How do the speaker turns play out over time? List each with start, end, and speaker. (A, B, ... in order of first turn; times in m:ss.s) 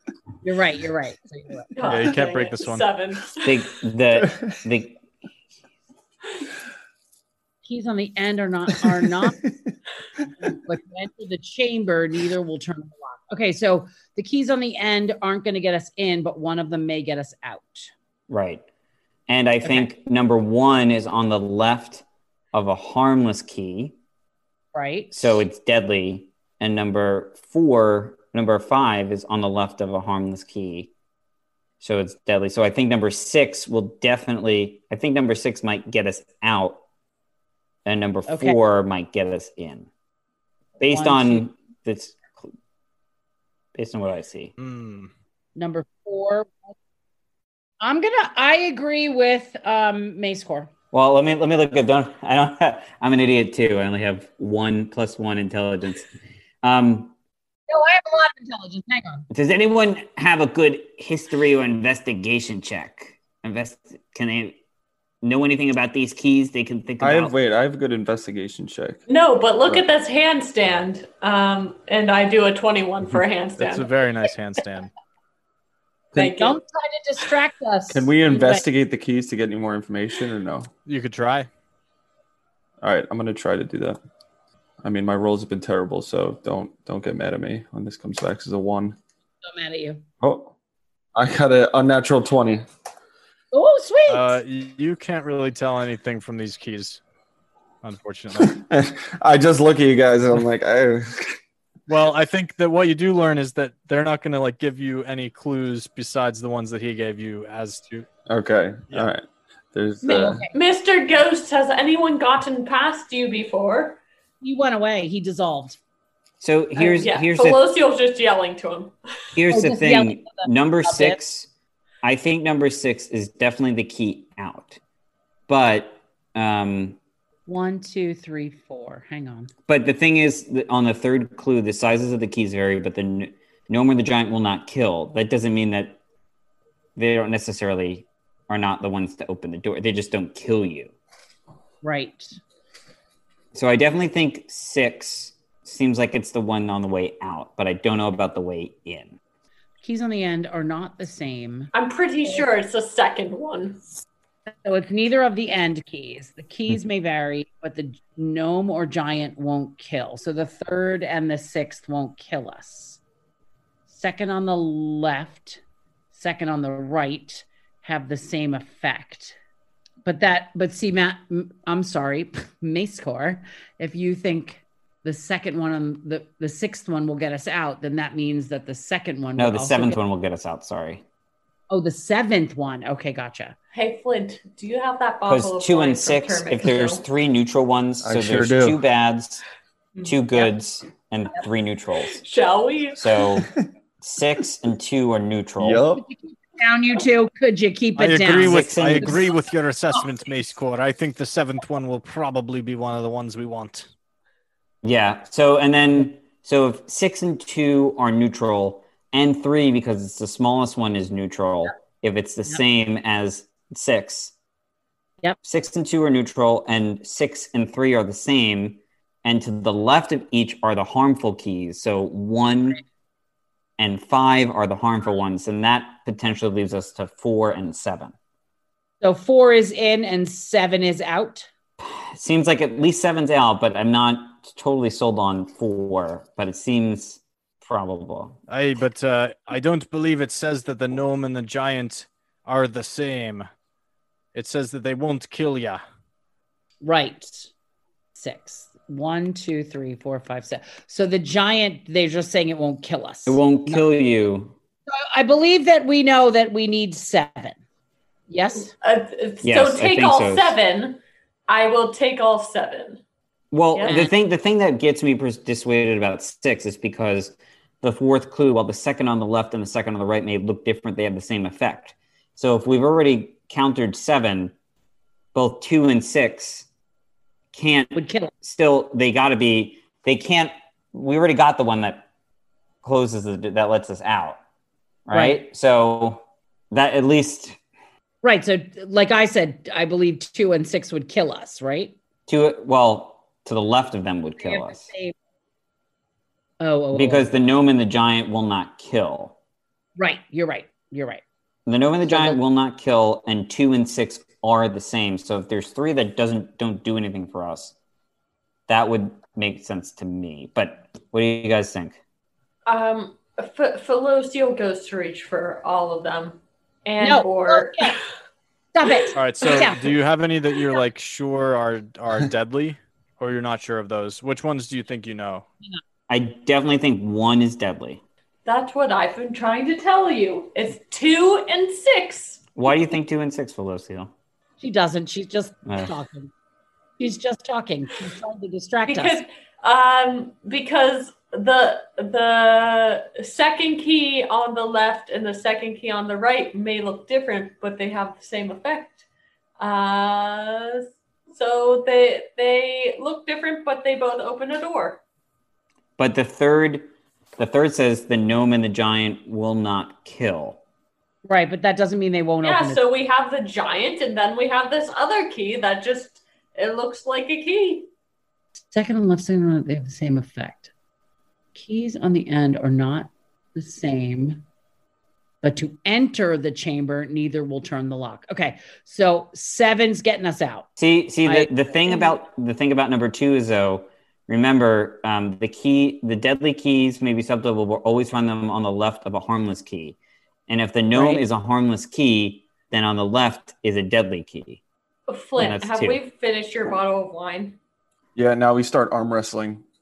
0:00.4-0:02.1 A
0:01.7-0:03.6 B
0:01.8-0:02.9 C
0:03.4-0:05.0 D
0:07.6-0:09.4 A
0:10.4-0:17.9 A
0:18.3-0:18.6 D
0:19.3-0:23.9 D
0:19.6-0:19.9 A
0:24.7-0:25.4 A
0:25.1-0:30.9 D
0:31.8-0:36.8 D
0:37.8-0:39.9 D
0:38.3-0:38.6 A
0:40.8-0:42.5 D
0:40.9-0:41.5 A
0:43.8-0:44.5 D
0:44.6-0:45.1 C
0:45.6-0:46.7 A
0:47.8-0:50.7 A
0:50.9-0:56.1 D
0:56.6-0:57.1 D
0:57.7-0:59.3 A
0:59.3-1:04.6 D
1:05.2-1:07.3 D
1:07.0-1:09.0 E
1:09.1-1:13.9 B
1:13.6-1:14.9 C
1:16.1-1:16.6 B
1:16.2-1:18.6 A
1:17.9-1:20.7 E
1:20.8-1:21.5 C
1:22.8-1:24.0 E
1:24.8-1:29.0 E
1:29.4-1:30.0 A
1:30.2-1:30.5 E
1:31.1-1:32.6 E
1:33.5-1:34.4 A
1:34.1-1:37.0 C
1:37.8-1:38.6 C
1:38.4-1:41.4 E
1:41.9-1:48.1 C
1:48.3-1:50.4 E
1:50.0-1:50.5 A
1:50.1-1:54.0 B
1:54.4-1:55.8 A
1:56.4-1:57.6 D
1:56.8-1:58.9 B
1:59.4-2:01.5 D
1:59.5-2:01.2 A
2:02.0-2:04.8 D
2:05.5-2:07.0 D
2:07.4-2:09.5 A
2:09.7-2:16.0 D
2:17.0-2:20.9 D
2:21.8-2:22.4 A
2:23.5-2:29.2 D
2:29.8-2:31.7 A
2:31.7-2:33.8 B
2:34.6-2:43.0 A
2:43.9-2:45.6 A
2:46.1-2:49.4 A
2:50.0-3:00.0 A
2:59.4-3:01.0 D
3:01.7-3:03.6 A
3:03.7-3:07.0 B
3:05.3-3:09.4 D
3:08.0-3:08.8 E
3:10.0-3:12.2 D
3:12.0-3:13.3 B
3:13.0-3:13.5 D
3:14.0-3:15.8 D
3:15.6-3:16.0 E
3:16.0-3:19.3 A
3:18.0-3:23.9 C
3:18.4-3:19.3 D
3:24.8-3:34.3 D
3:35.4-3:42.8 D
3:43.8-3:48.1 D
3:49.0-3:51.5 A
3:51.8-3:58.4 D
3:58.5-4:03.5 C
4:04.3-4:05.8 C
4:06.8-4:07.5 A
4:08.1-4:13.9 A
4:13.2-4:14.5 D
4:14.9-4:17.6 A
4:18.3-4:18.7 A
4:18.8-4:23.0 B
4:19.4-4:20.6 D
4:23.5-4:34.5 D
4:23.7-4:24.1 B
4:23.8-4:24.1 A
4:35.3-4:36.6 D
4:37.5-4:42.0 D
4:37.9-4:38.3 A
4:42.8-4:44.4 D
4:45.0-4:47.6 D
4:45.1-4:45.4 A
4:48.2-4:52.0 A
4:52.3-4:54.8 D
4:54.4-4:55.1 A
4:56.6-4:57.3 A
4:56.9-4:59.3 D
5:00.0-5:01.2 A
5:01.6-5:07.7 D
5:02.0-5:02.4 A
5:08.7-5:12.0 D
5:12.6-5:18.0 B
5:17.0-5:18.0 A
5:18.7-5:19.9 A
5:18.9-5:19.6 B
5:19.1-5:25.4 C
5:26.1-5:28.0 D
5:28.4-5:32.4 B
5:32.6-5:34.1 D
5:34.6-5:36.3 A
5:35.6-5:35.9 D
5:37.0-5:39.2 A
5:38.9-5:49.0 B
5:49.6-5:55.0 B
5:56.0-6:00.6 D
6:01.2-6:02.8 A
6:02.4-6:07.9 B
6:08.7-6:10.7 A
6:11.5-6:14.4 A
6:15.4-6:20.7 A
6:20.8-6:30.0 D
6:21.2-6:22.2 A
6:30.5-6:34.6 D
6:30.9-6:31.2 A
6:35.1-6:37.6 B
6:35.4-6:36.0 D
6:38.2-6:39.6 E